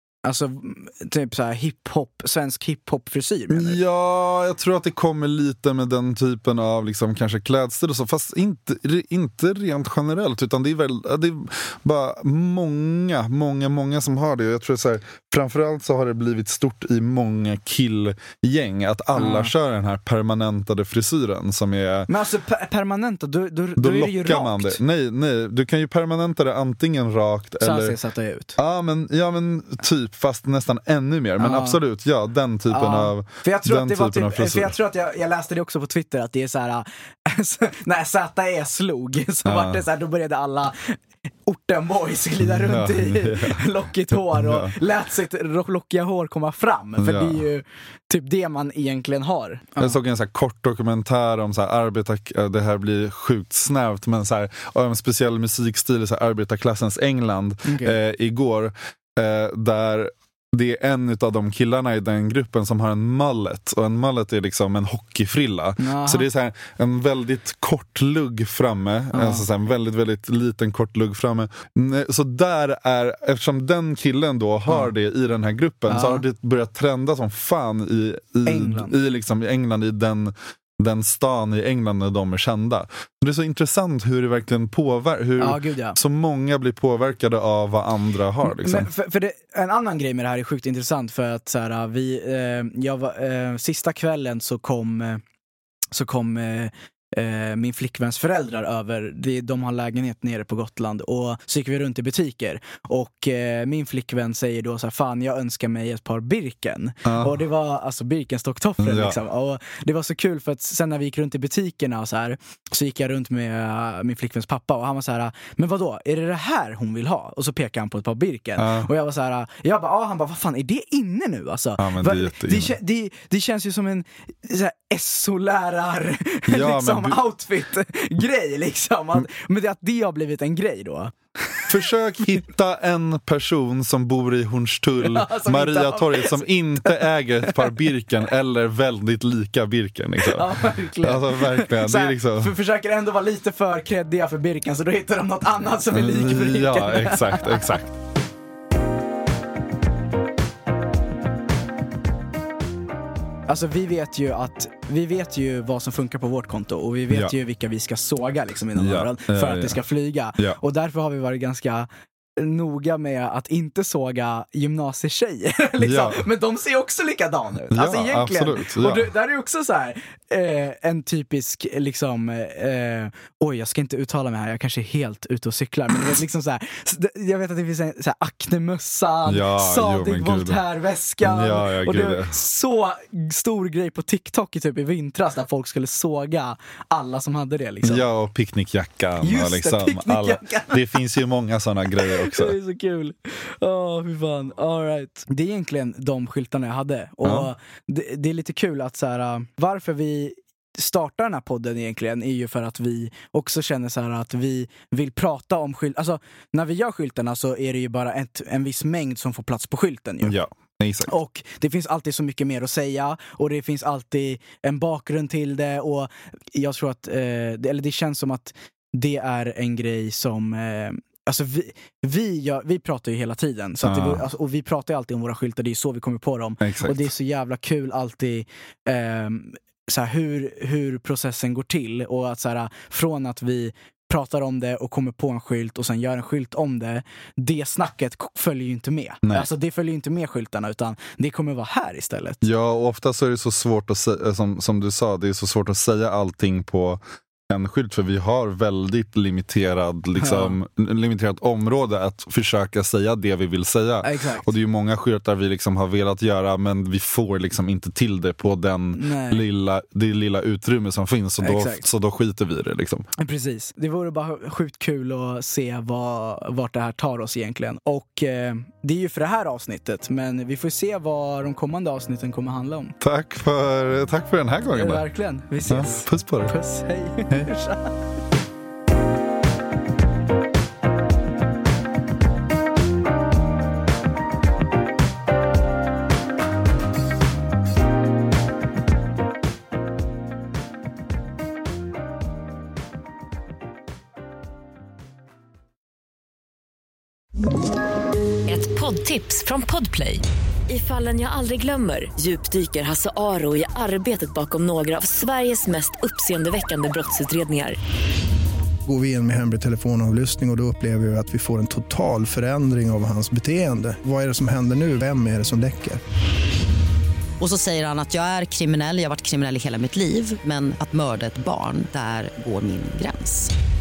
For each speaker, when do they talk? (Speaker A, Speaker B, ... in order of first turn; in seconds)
Speaker A: 0.2-3.8, 19.1-19.5, 22.1-24.8, 27.6-28.6, 31.4-31.8, 32.7-50.0, 57.6-58.0, 65.8-66.3, 69.1-69.5, 75.9-76.2, 78.5-79.0, 85.4-86.0, 88.4-95.2, 95.9-131.8, 135.0-137.8, 140.2-147.7, 153.5-188.1, 189.2-191.0, 191.9-210.4, 211.1-242.4, 250.2-250.6, 254.0-254.5, 258.9-259.4, 261.4-261.9, 263.2-273.0, 274.7-278.0
Speaker B: 3.5-22.1, 23.8-27.9, 28.6-34.7, 39.5-39.8, 42.4-44.7, 47.0-47.4, 49.8-88.9, 107.1-107.4, 108.8-109.2, 118.6-118.9, 121.8-122.8, 126.5-127.2, 131.7-142.5, 145.9-148.0, 158.8-159.8, 165.8-166.3, 167.7-169.1, 179.3-180.6, 181.2-182.4, 187.8-192.6, 197.2-197.5, 210.2-211.1, 223.8-224.2, 226.6-227.1, 242.4-263.1, 273.0-275.0, 275.7-276.5
Speaker C: 298.5-307.8
Speaker D: 308.9-316.0
Speaker E: 317.4-323.5